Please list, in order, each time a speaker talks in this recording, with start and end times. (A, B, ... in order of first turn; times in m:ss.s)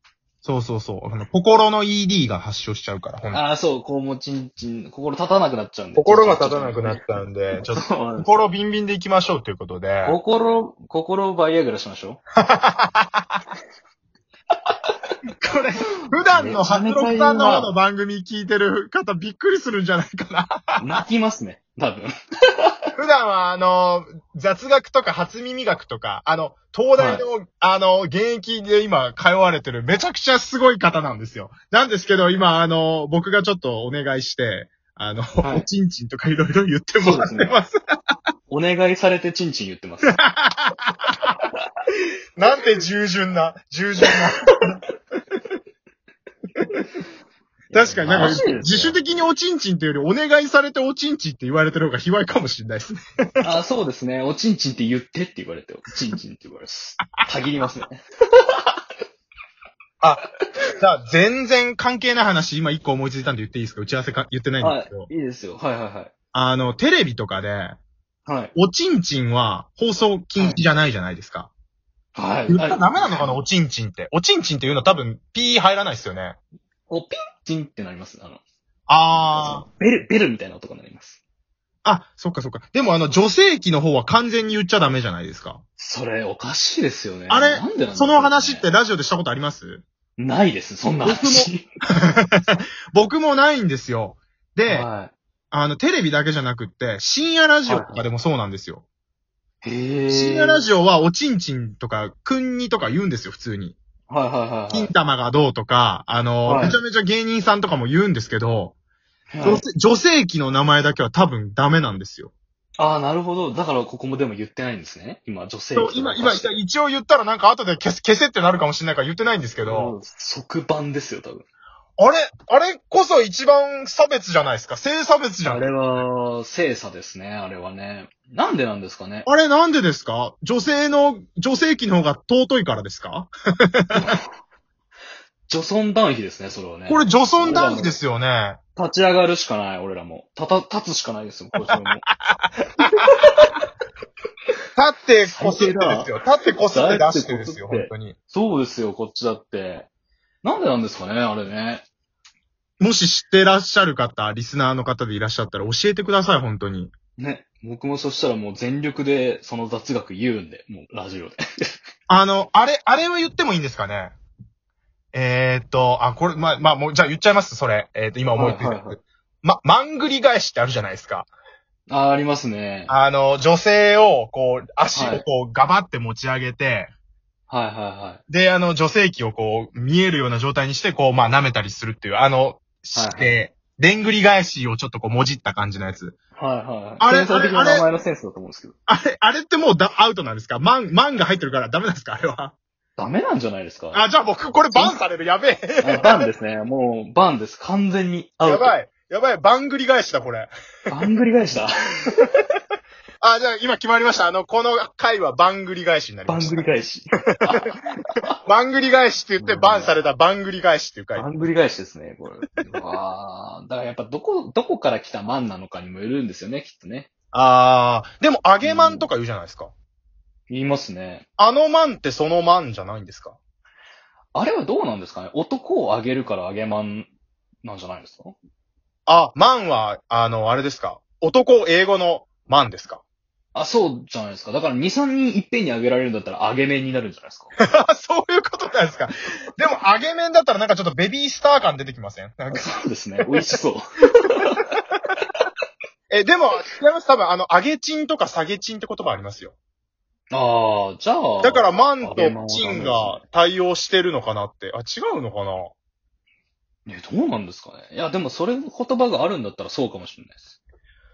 0:00.4-0:03.4 A
0:03.3-0:08.5 B
0:06.0-0:10.2 A
0:10.0-0:12.2 B
0:12.4-0:13.4 A
0:15.4-0:21.0 A
0:16.3-0:17.7 B
0:20.8-0:22.1 B
0:23.0-0:37.7 A
0:27.0-0:27.2 B
0:37.0-0:37.6 B
0:38.5-0:40.2 B
0:40.0-0:41.4 A
0:42.4-0:44.8 A
0:44.1-0:44.5 B
0:47.7-0:49.0 B
0:47.7-0:53.4 A
0:53.4-0:58.0 B
1:00.8-1:05.1 A
1:04.6-1:06.1 B
1:06.3-1:07.8 A
1:08.3-1:08.5 B
1:08.6-1:11.5 A
1:12.2-1:13.4 B
1:12.5-1:16.4 A
1:16.9-1:18.4 B
1:18.9-1:19.6 A
1:19.1-1:21.2 B
1:21.8-1:25.6 A
1:25.8-1:28.7 B
1:27.3-1:29.8 A
1:30.2-1:31.6 B
1:31.0-1:31.5 A
1:32.0-1:34.9 A
1:34.7-1:35.1 B
1:35.5-1:38.8 A
1:37.7-1:38.0 B
1:39.6-1:40.6 B
1:40.1-1:43.8 A
1:44.1-1:44.9 B
1:44.7-1:48.7 A
1:46.4-1:46.8 B
1:49.3-1:49.6 B
1:49.4-1:52.3 A
1:52.8-1:56.5 B
1:55.8-2:00.0 A
1:59.6-2:01.4 B
2:02.0-2:05.7 A
2:05.4-2:09.3 B
2:09.3-2:14.2 A
2:13.9-2:14.2 B
2:15.5-2:18.0 B
2:16.9-2:18.6 A
2:18.8-2:22.0 B
2:21.6-2:22.4 A
2:22.8-2:23.6 B
2:24.8-2:28.2 A
2:25.3-2:26.1 B
2:26.7-2:29.9 B
2:30.4-2:31.8 B
2:32.8-2:36.9 A
2:37.2-2:41.4 B
2:42.1-2:44.1 A
2:45.1-2:51.3 A
2:48.4-2:49.0 B
2:51.9-2:52.9 B
2:52.9-2:56.9 A
2:54.9-2:55.2 B
2:57.5-2:58.2 B
2:58.3-3:06.2 A
3:02.9-3:03.4 B
3:06.4-3:08.8 B
3:07.0-3:07.9 A
3:08.9-3:12.5 A
3:13.0-3:14.0 B
3:13.9-3:16.3 A
3:14.7-3:15.0 B
3:15.8-3:18.7 B
3:18.4-3:21.0 A
3:20.9-3:22.1 B
3:23.2-3:26.7 A
3:26.3-3:28.4 B
3:28.4-3:31.5 A
3:29.4-3:30.0 B
3:31.2-3:37.1 B
3:37.3-3:39.7 A
3:38.6-3:39.1 B
3:40.5-3:41.3 B
3:41.4-3:43.4 A
3:44.3-3:47.1 B
3:47.6-3:48.4 B
3:49.1-3:53.0 A
3:53.6-3:57.5 B
3:57.6-4:02.7 A
4:02.5-4:04.7 B
4:03.2-4:03.4 A
4:06.1-4:09.6 A
4:10.3-4:13.2 B
4:11.4-4:15.7 A
4:16.9-4:20.6 B